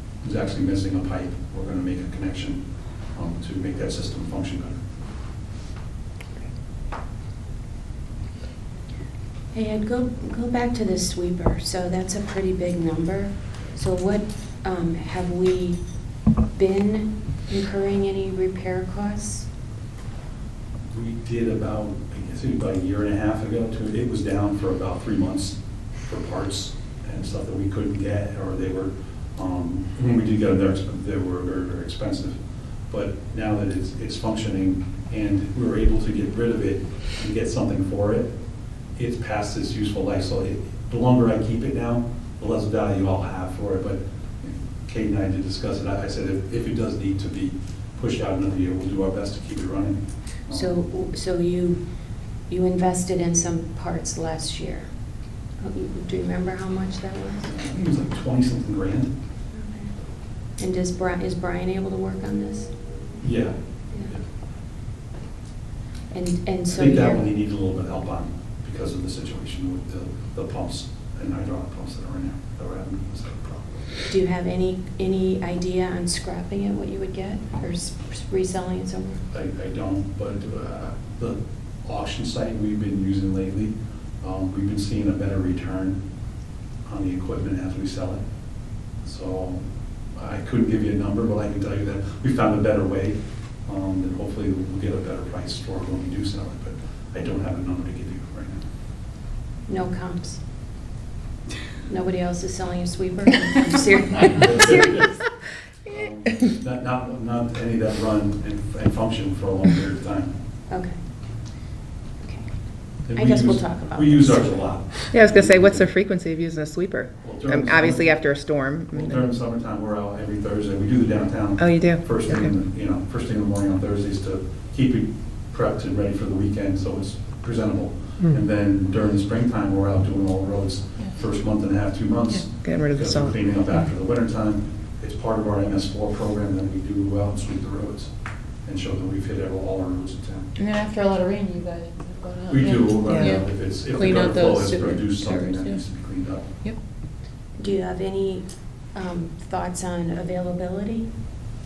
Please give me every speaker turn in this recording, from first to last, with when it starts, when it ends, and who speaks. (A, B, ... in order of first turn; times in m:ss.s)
0:00.2-0:02.6 A
0:03.1-0:04.8 A
0:09.5-0:15.8 B
0:16.5-0:19.5 B
0:20.9-0:32.4 A
0:32.9-0:38.3 A
0:39.0-0:50.8 A
0:50.5-0:54.9 B
0:55.6-0:57.6 B
0:57.5-0:59.1 A
0:59.5-0:59.9 B
1:00.6-1:02.7 B
1:03.2-1:04.2 A
1:06.1-1:07.2 B
1:06.7-1:13.8 A
1:14.1-1:19.2 B
1:19.3-1:26.0 A
1:26.9-1:28.2 A
1:29.0-1:29.6 A
1:30.2-1:38.6 A
1:39.7-1:40.4 B
1:41.9-1:45.2 B
1:44.2-1:45.2 A
1:45.8-1:50.3 A
1:50.7-1:51.0 B
1:52.2-1:52.5 B
1:53.0-1:54.7 B
1:53.1-1:55.9 A
1:55.1-1:59.3 C
1:57.2-2:18.1 A
2:01.6-2:02.5 C
2:12.5-2:13.9 C
2:18.6-2:20.5 A
2:20.6-2:25.8 D
2:22.5-2:26.6 A
2:23.0-2:23.4 C
2:27.6-2:31.1 B